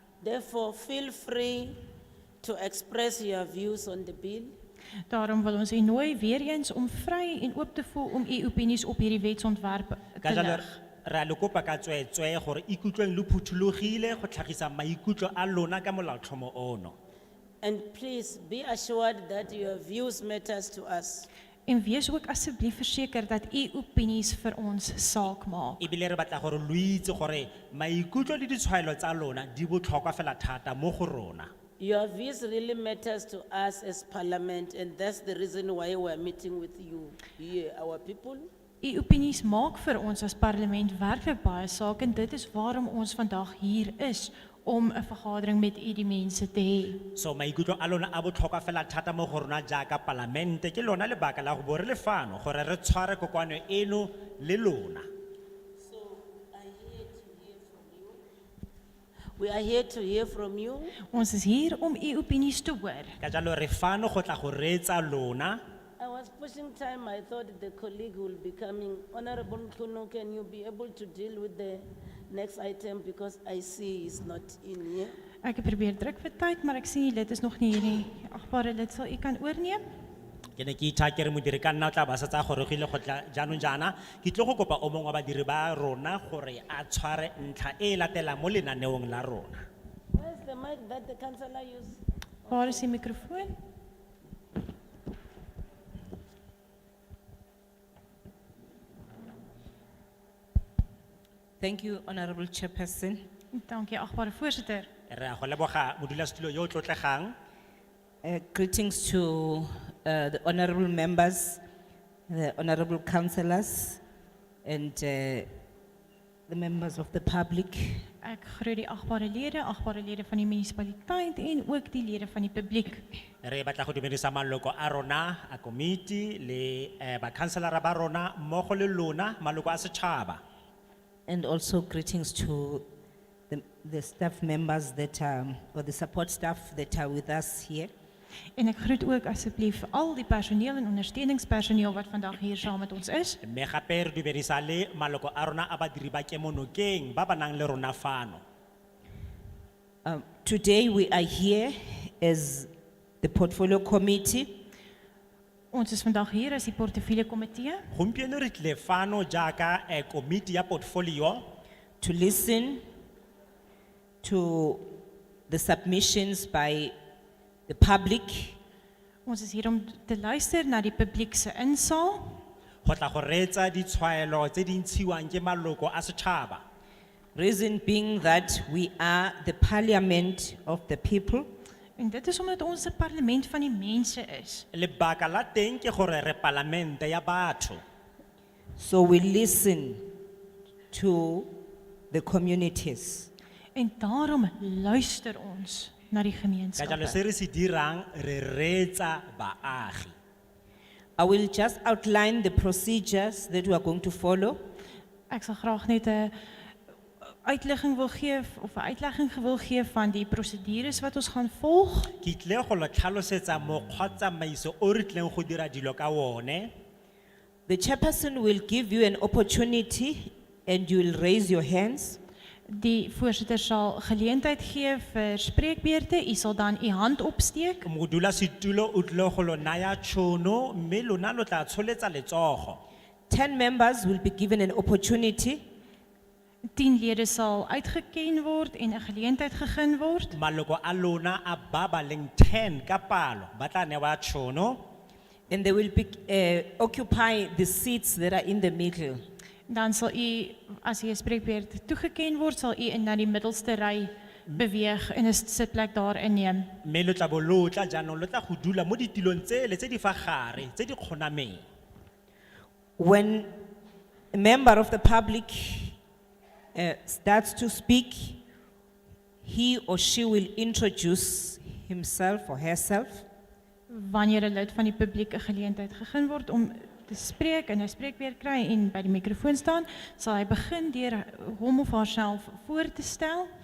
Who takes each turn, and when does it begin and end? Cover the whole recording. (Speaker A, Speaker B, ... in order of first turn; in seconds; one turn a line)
Speaker A: 0.2-1.8
Speaker A: 2.4-4.5
Speaker B: 5.1-10.7
Speaker C: 10.2-16.9
Speaker A: 17.6-21.3
Speaker B: 21.7-25.9
Speaker C: 25.8-31.5
Speaker A: 31.8-38.5
Speaker B: 38.8-47.0
Speaker C: 47.1-55.1
Speaker A: 55.8-58.2
Speaker A: 59.4-61.0
Speaker B: 61.1-63.2
Speaker C: 63.2-65.6
Speaker A: 66.0-75.2
Speaker B: 75.4-79.8
Speaker C: 80.6-89.6
Speaker A: 90.1-92.9
Speaker B: 92.5-93.5
Speaker D: 101.6-103.2
Speaker B: 103.5-104.9
Speaker C: 105.1-107.3
Speaker D: 108.2-111.6
Speaker D: 112.3-114.0
Speaker D: 114.6-115.5
Speaker D: 116.5-118.1
Speaker B: 118.2-123.0
Speaker C: 123.4-130.4
Speaker D: 131.3-132.8
Speaker D: 133.5-137.9
Speaker B: 138.6-143.4
Speaker C: 143.4-148.4
Speaker D: 150.1-152.7
Speaker D: 153.2-154.7
Speaker B: 155.7-157.8
Speaker C: 157.9-161.4
Speaker D: 162.0-162.8
Speaker D: 164.2-164.9
Speaker D: 165.5-166.9
Speaker D: 167.7-168.6
Speaker B: 169.3-172.4
Speaker C: 172.8-176.6
Speaker D: 177.3-181.5
Speaker B: 182.0-184.7
Speaker C: 184.7-187.8
Speaker D: 188.8-190.1
Speaker D: 190.9-191.5
Speaker D: 192.1-193.3
Speaker B: 193.8-197.2
Speaker C: 196.8-200.2
Speaker D: 201.2-204.6
Speaker B: 205.3-206.3
Speaker B: 207.3-212.1
Speaker C: 212.2-216.7
Speaker D: 217.7-222.2
Speaker B: 222.7-227.9
Speaker C: 227.8-232.8
Speaker D: 233.3-235.6
Speaker B: 236.7-240.4
Speaker C: 240.3-244.8
Speaker D: 245.5-249.3
Speaker B: 249.7-256.7
Speaker C: 256.8-261.6
Speaker D: 263.0-263.6
Speaker D: 264.3-266.0
Speaker D: 266.8-268.4
Speaker D: 269.4-273.3
Speaker B: 273.9-283.5